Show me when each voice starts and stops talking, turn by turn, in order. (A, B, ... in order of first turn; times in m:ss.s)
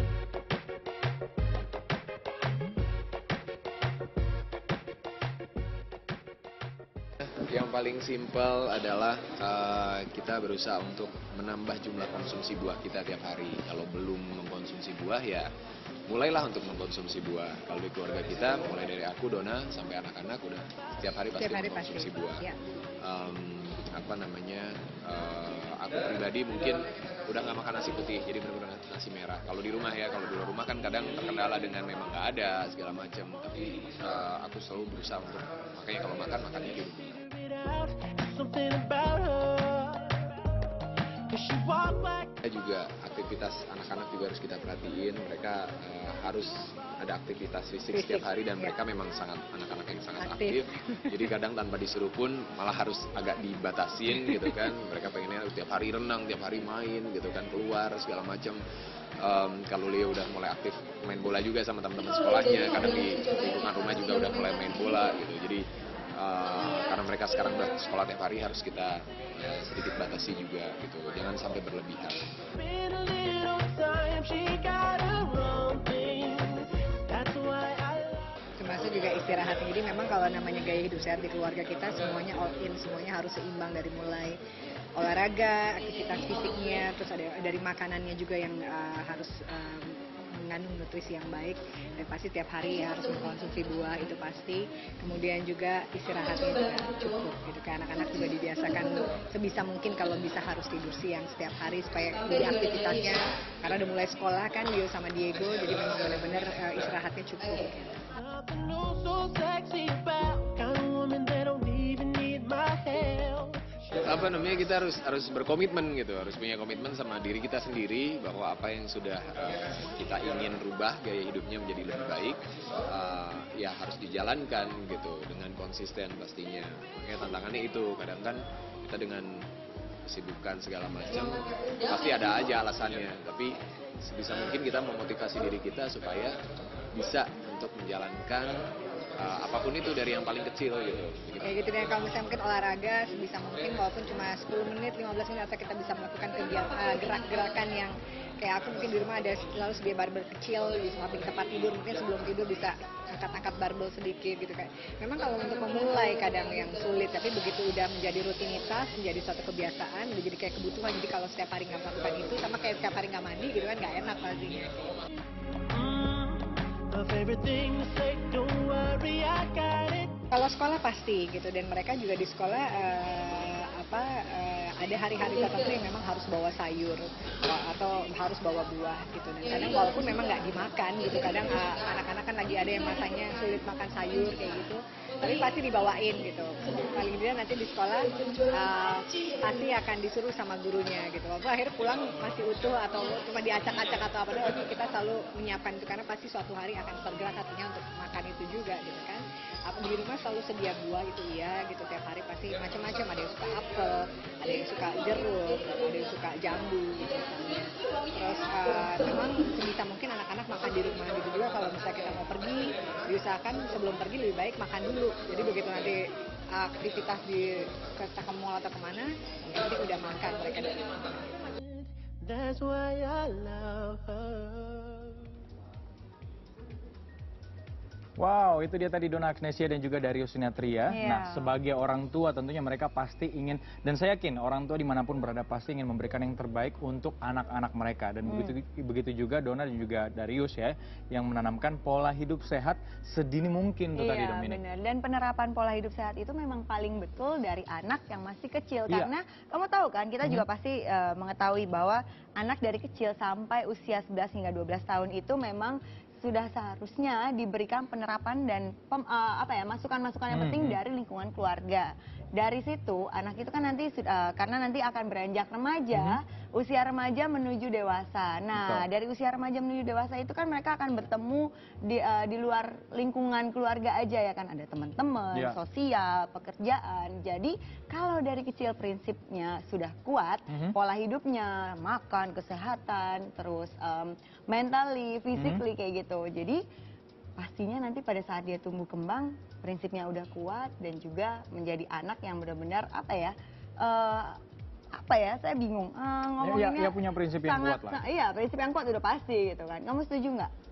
0:07.2-0:15.5 A
0:16.1-0:22.4 A
0:21.3-0:22.6 B
0:23.0-0:37.2 A
0:37.2-0:40.5 C
0:41.3-0:42.3 C
0:42.4-0:58.6 A
0:47.9-0:48.7 B
0:50.2-0:51.3 B
0:59.2-1:05.6 A
1:06.2-1:12.3 A
1:12.5-1:18.3 C
1:18.6-1:24.4 B
1:25.0-1:48.0 B
1:48.1-1:54.0 C
1:54.0-2:09.5 A
2:10.1-2:16.4 A
2:16.9-2:18.6 A
2:19.2-2:21.5 A
2:21.4-2:44.8 B
2:45.7-2:50.2 C
2:50.3-3:36.0 B
3:36.5-3:40.9 B
3:41.5-3:45.3 C
3:48.2-4:04.6 D
3:50.9-3:51.5 E
3:58.3-3:58.5 E
4:04.0-4:46.6 E
4:20.3-4:20.8 D
4:28.6-4:28.9 D
4:40.5-4:40.8 D
4:45.4-4:45.6 D
4:47.4-4:54.4 E
4:54.9-5:00.5 E
4:56.4-4:58.0 D